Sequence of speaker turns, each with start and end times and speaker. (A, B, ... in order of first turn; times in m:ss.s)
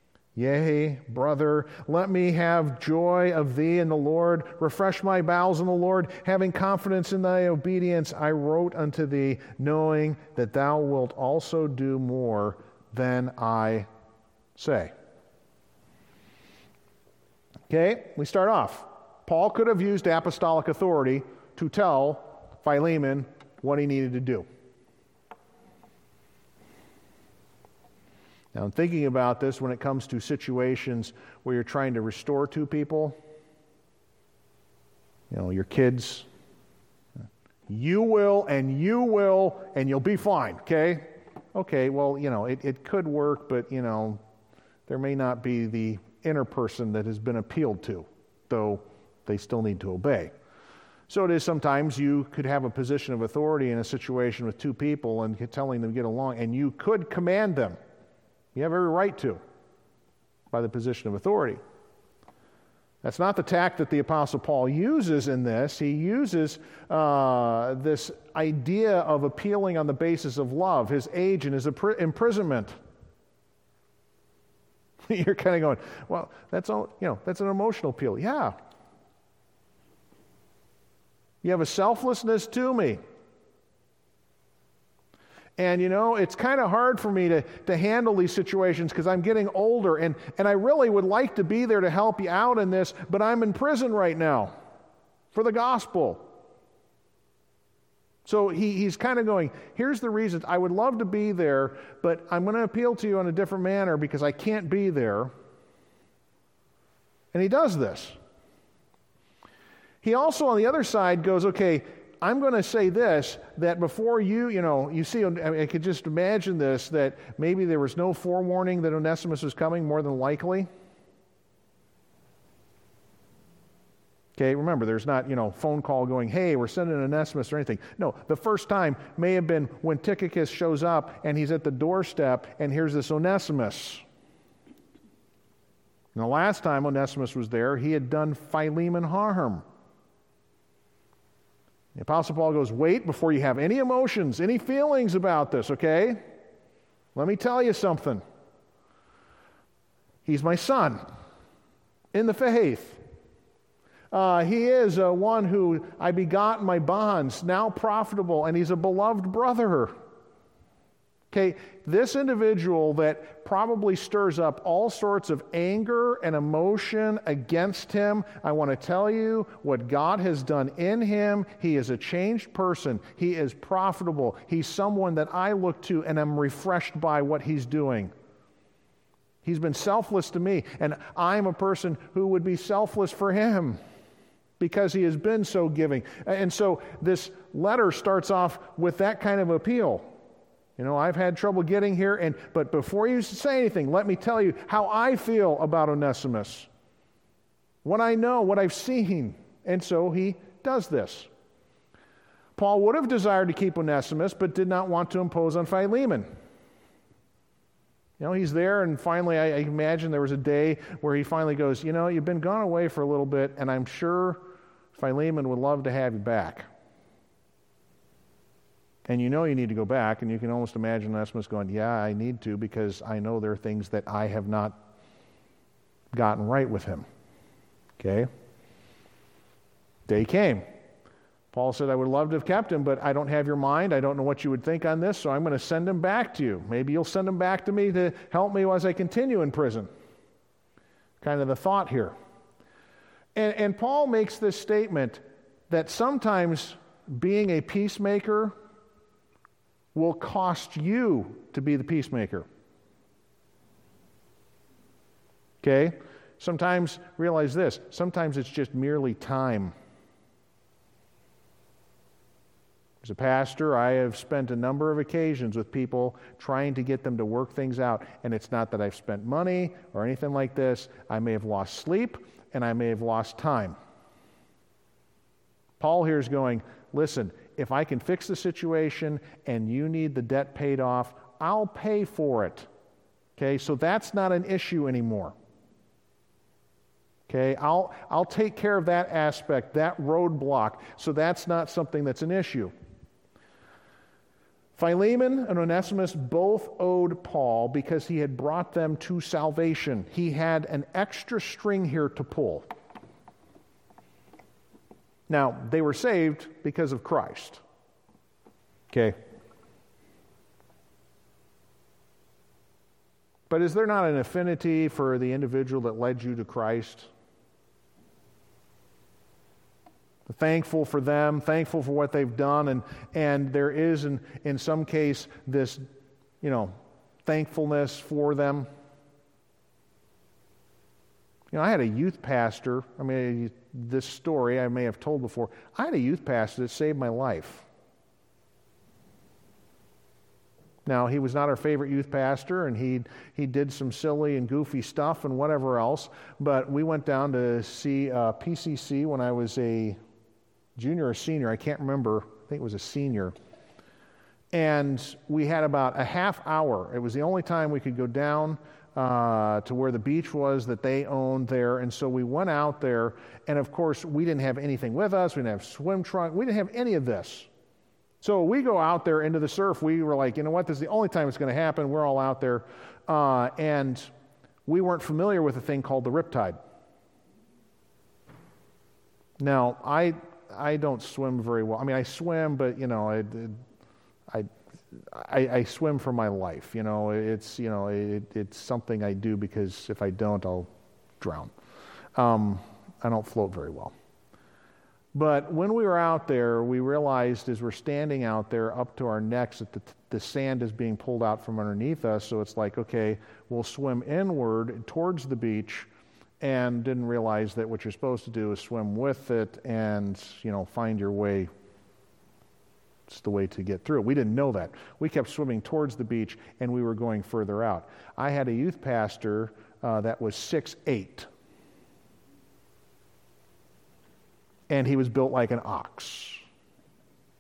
0:00.4-0:13.9 A
0:14.6-0:14.9 A
0:17.7-0:24.5 A
0:28.5-0:33.2 A
0:35.3-0:36.3 A
0:37.7-0:44.2 A
0:44.9-0:50.3 A
0:51.1-0:57.8 A
0:58.6-0:59.4 A
1:00.5-1:01.6 A
1:03.0-1:12.8 A
1:15.1-1:18.6 A
1:21.4-1:23.0 A
1:25.6-1:34.5 A
1:35.3-1:36.3 A
1:38.3-1:45.3 A
1:47.3-1:48.2 A
1:50.0-2:00.7 A
2:04.4-2:14.0 A
2:16.1-2:19.6 A
2:22.0-2:26.2 A
2:27.1-2:28.2 A
2:30.2-2:31.0 A
2:32.1-2:33.0 A
2:34.1-2:39.9 A
2:41.3-2:58.1 A
2:59.4-3:03.8 A
3:04.6-3:10.1 A
3:10.8-3:16.7 A
3:17.8-3:21.3 A
3:22.6-3:26.3 A
3:28.2-3:34.4 A
3:35.0-3:36.7 A
3:39.1-3:44.8 A
3:46.1-3:47.1 A
3:48.0-3:48.3 A
3:50.1-3:50.7 A
3:51.5-3:59.9 A
4:01.2-4:02.2 A
4:03.4-4:08.6 A
4:10.0-4:12.5 A
4:15.6-4:19.7 A
4:23.0-4:33.8 A
4:35.8-4:42.7 A
4:43.4-4:45.4 A
4:47.3-4:52.7 A
4:54.8-5:02.7 A
5:05.3-5:07.6 A
5:08.9-5:09.2 A
5:13.5-5:17.1 A
5:20.3-5:25.9 A
5:26.4-5:26.7 A
5:27.2-5:28.7 A
5:31.5-5:37.6 A
5:40.9-5:50.0 A
5:50.8-5:53.4 A
5:54.5-6:07.5 A
6:08.2-6:14.1 A
6:14.6-6:16.6 A
6:19.4-6:23.6 A
6:25.1-6:30.7 A
6:31.2-6:31.5 A
6:32.2-6:33.9 A
6:35.1-6:45.9 A
6:46.4-6:51.5 A
6:53.1-7:01.3 A
7:04.7-7:06.4 A